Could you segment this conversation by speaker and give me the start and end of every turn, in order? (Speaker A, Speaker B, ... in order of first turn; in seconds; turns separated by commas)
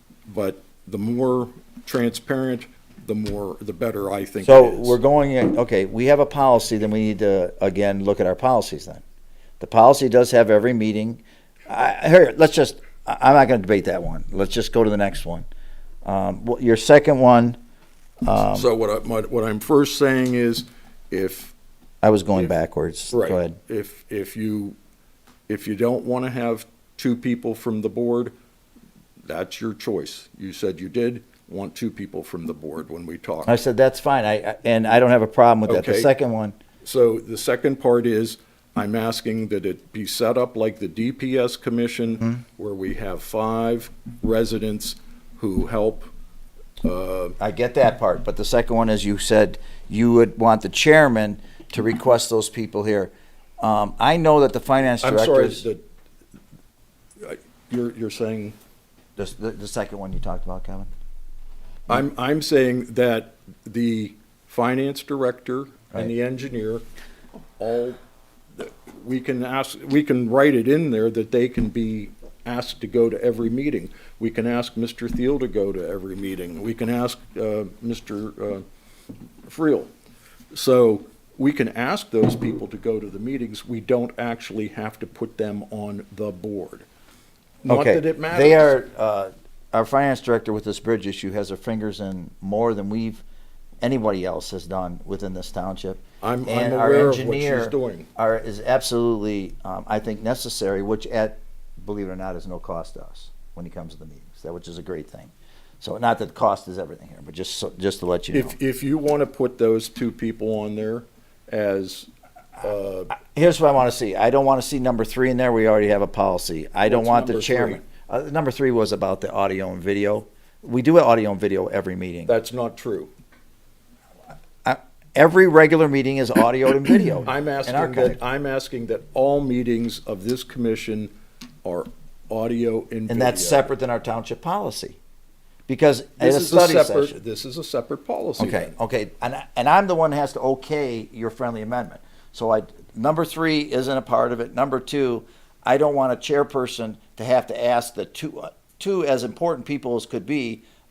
Speaker A: 0.3-5.0, Speaker B: 4.4-9.0, Speaker B: 9.6-15.4, Speaker B: 16.0-17.6, Speaker B: 18.2-18.7, Speaker A: 18.4-21.5, Speaker B: 22.0-23.6, Speaker A: 23.1-24.8, Speaker A: 25.5-28.3, Speaker A: 29.2-33.5, Speaker B: 33.5-36.6, Speaker A: 35.7-36.1, Speaker A: 36.8-46.1, Speaker A: 46.8-47.4, Speaker B: 47.4-55.6, Speaker A: 55.0-55.8, Speaker A: 57.2-58.5, Speaker B: 59.2-60.9, Speaker A: 61.9-66.8, Speaker A: 67.6-68.0, Speaker A: 68.5-78.6, Speaker A: 79.5-79.9, Speaker A: 80.5-86.9, Speaker A: 87.6-88.7, Speaker B: 87.7-93.2, Speaker B: 93.8-108.5, Speaker A: 96.2-98.1, Speaker A: 108.3-113.1, Speaker B: 113.2-122.3, Speaker A: 116.8-117.8, Speaker A: 122.3-123.1, Speaker B: 124.6-128.2, Speaker A: 127.2-131.1, Speaker A: 131.6-133.7, Speaker B: 133.1-135.0, Speaker B: 135.7-137.2, Speaker A: 136.2-138.7, Speaker B: 138.4-150.6